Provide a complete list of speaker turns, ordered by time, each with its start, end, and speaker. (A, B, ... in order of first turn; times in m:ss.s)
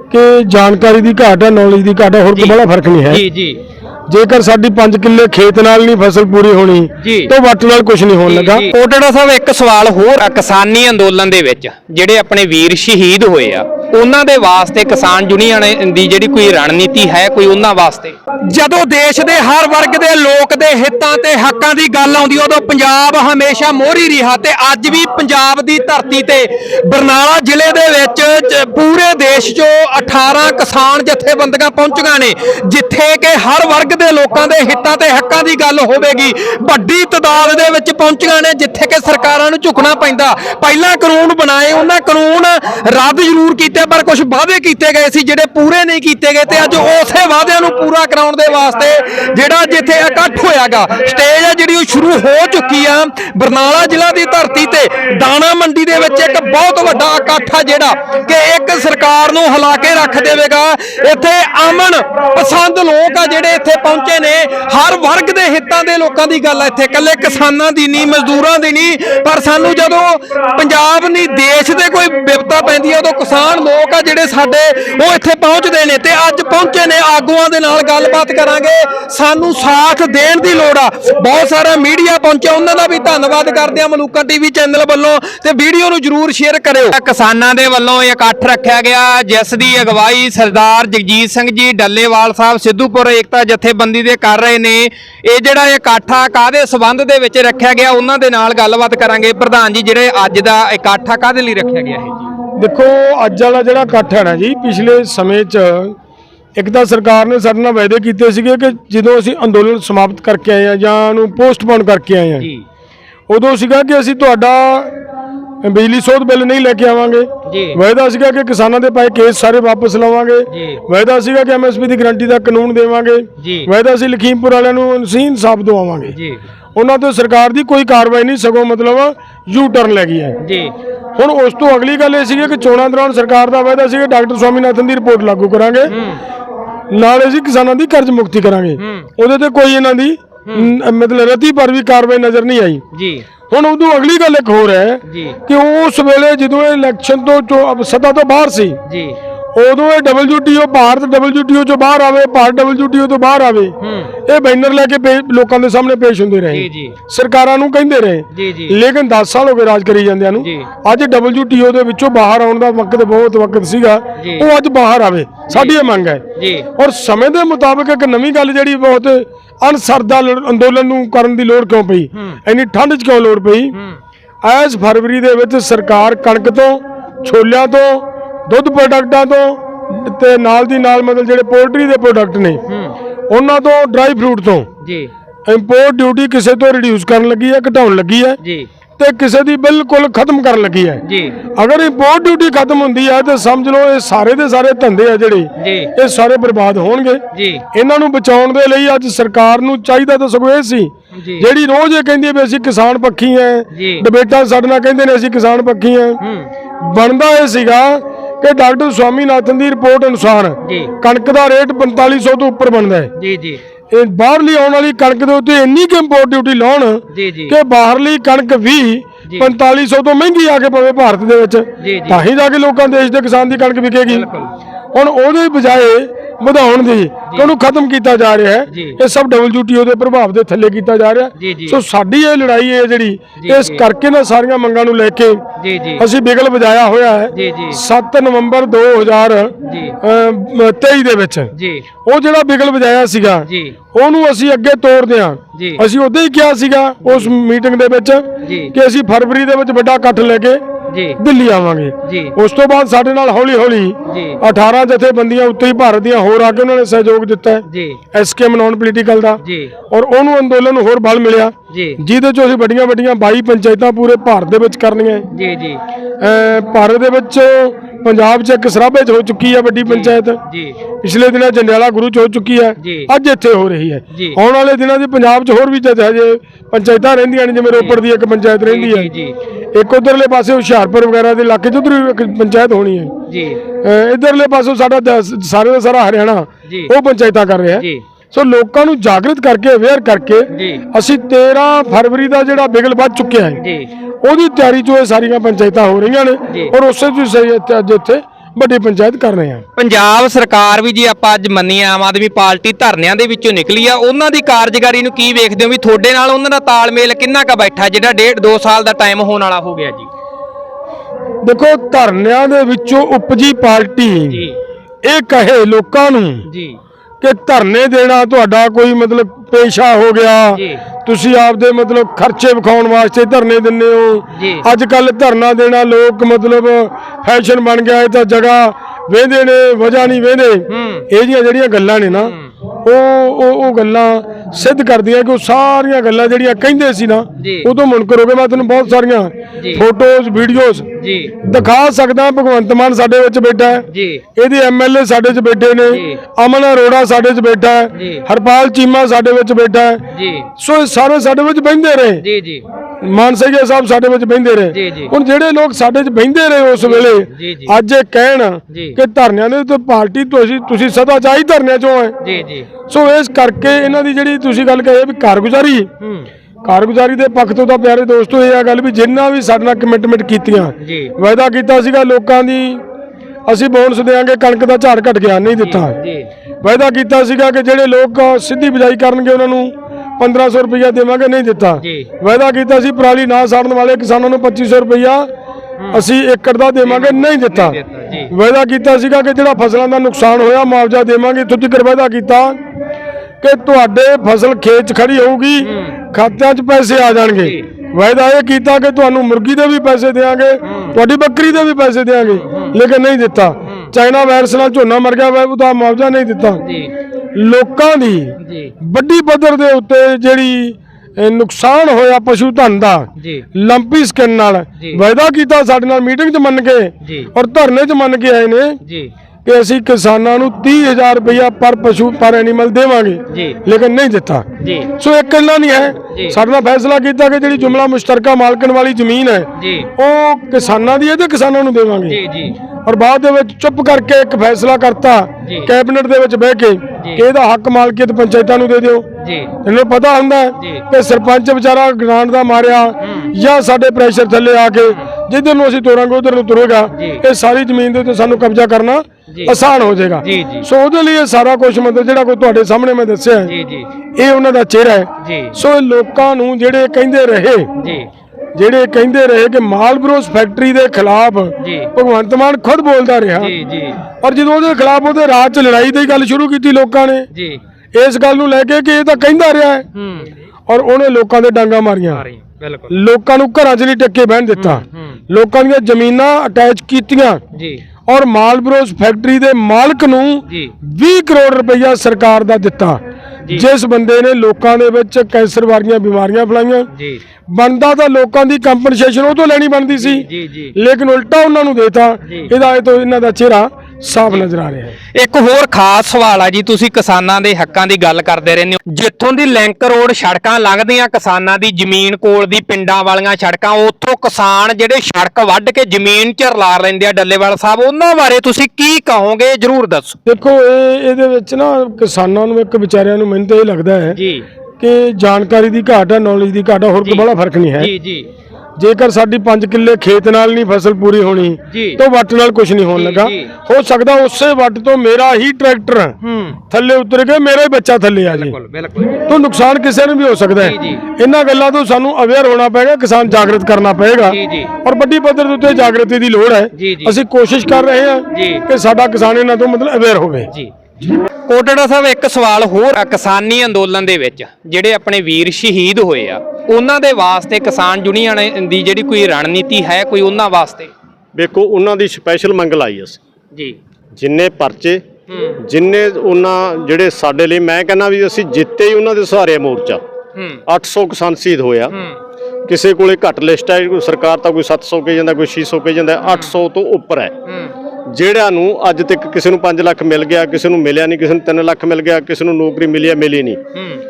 0:00.1-0:03.2 A
0:03.1-0:03.6 B
0:04.1-0:08.7 A
0:07.0-0:07.3 B
0:08.3-1:42.3 B
1:42.6-1:46.0 A
1:46.6-1:52.5 A
1:53.3-1:55.0 A
1:55.6-2:06.2 A
1:57.5-1:57.8 B
2:03.4-2:03.7 B
2:06.1-2:06.4 B
2:06.8-2:10.4 A
2:10.4-2:10.7 B
2:11.2-2:16.0 A
2:15.9-2:16.2 B
2:16.9-2:22.8 A
2:23.0-2:23.2 B
2:23.5-2:28.8 A
2:28.9-2:29.2 B
2:29.6-2:53.8 A
2:33.8-2:34.1 B
2:36.5-2:37.0 B
2:38.4-2:38.8 B
2:44.2-2:44.5 B
2:46.4-2:46.7 B
2:54.4-3:02.6 A
3:03.3-3:04.7 A
3:04.8-3:05.1 B
3:05.5-3:08.4 A
3:08.4-3:08.7 B
3:09.0-3:11.0 A
3:11.0-3:11.4 B
3:11.6-3:26.2 A
3:15.6-3:15.9 B
3:17.3-3:17.6 B
3:21.2-3:21.5 B
3:23.7-3:24.0 B
3:26.2-3:26.5 B
3:26.8-3:33.1 A
3:33.2-3:33.6 B
3:33.9-3:44.3 A
3:37.2-3:37.5 B
3:41.8-3:42.2 B
3:44.1-3:44.5 B
3:44.9-3:55.4 A
3:51.4-3:51.8 B
3:53.4-3:53.8 B
3:55.6-3:56.0 B
3:56.0-4:01.5 A
3:57.4-3:57.8 B
3:59.6-4:00.0 B
4:01.6-4:01.8 B
4:02.0-4:10.6 A
4:03.5-4:03.8 B
4:08.4-4:08.7 B
4:10.9-4:11.2 B
4:11.2-4:25.3 A
4:12.1-4:12.3 B
4:14.1-4:14.4 B
4:17.7-4:18.0 B
4:19.4-4:19.7 B
4:21.7-4:22.0 B
4:25.4-4:25.8 B
4:26.2-4:30.4 A
4:29.9-4:30.8 B
4:31.0-4:39.1 A
4:32.8-4:33.1 B
4:38.7-4:39.4 B
4:39.7-4:43.1 A
4:43.3-4:43.6 B
4:43.8-4:53.6 A
4:50.5-4:50.8 B
4:53.6-4:53.9 B
4:54.2-4:59.6 A
4:59.8-5:10.1 B
5:11.4-5:14.5 A
5:15.1-5:16.5 A
5:16.5-5:16.8 B
5:17.2-5:40.9 A
5:30.7-5:31.0 B
5:37.4-5:37.7 B
5:41.0-5:41.4 B
5:41.4-5:50.1 A
5:43.9-5:44.2 B
5:50.2-5:50.5 B
5:50.6-5:52.2 A
5:52.2-5:52.6 B
5:53.0-6:02.2 A
5:54.8-5:55.1 B
5:56.9-5:57.7 B
6:02.2-6:02.7 B
6:02.9-6:05.9 A
6:06.6-6:12.8 A
6:13.5-6:16.0 A
6:15.6-6:16.3 B
6:16.6-6:25.3 A
6:25.9-6:32.6 A
6:26.9-6:28.3 B
6:33.4-6:46.7 A
6:40.7-6:41.0 B
6:42.4-6:42.7 B
6:46.6-6:46.9 B
6:47.4-6:58.8 A
6:48.4-6:48.7 B
6:59.4-7:12.2 A
7:04.6-7:04.9 B
7:09.6-7:09.9 B
7:12.1-7:12.6 B
7:12.8-7:19.1 A
7:19.2-7:19.5 B
7:19.6-7:33.6 A
7:30.2-7:30.7 B
7:33.5-7:33.9 B
7:34.2-7:37.7 A
7:37.8-7:38.1 B
7:38.6-7:43.6 A
7:41.6-7:41.9 B
7:43.4-7:44.0 B
7:44.2-7:47.3 A
7:47.3-7:47.6 B
7:48.0-7:49.9 A
7:50.0-7:50.3 B
7:50.7-7:52.3 A
7:52.1-7:52.9 B
7:52.9-7:57.4 A
7:54.6-7:55.1 B
7:57.6-7:57.8 B
7:58.1-8:06.9 A
8:07.0-8:07.2 B
8:07.5-8:15.0 A
8:10.2-8:10.7 B
8:15.2-8:30.2 B
8:30.2-8:34.2 A
8:34.2-8:34.5 B
8:34.8-8:37.9 A
8:37.8-8:38.3 B
8:38.8-8:46.2 A
8:41.7-8:42.0 B
8:43.0-8:43.5 B
8:46.2-8:46.6 B
8:46.7-8:48.6 A
8:48.4-8:49.2 B
8:49.2-9:00.5 A
8:50.6-8:51.0 B
8:54.3-8:54.7 B
8:56.8-8:57.1 B
8:58.3-8:58.6 B
9:01.5-9:10.9 B
9:11.4-9:13.2 C
9:14.2-9:15.0 C
9:15.6-9:20.0 C
9:20.7-9:22.0 C
9:22.7-9:27.3 C
9:28.1-9:33.6 C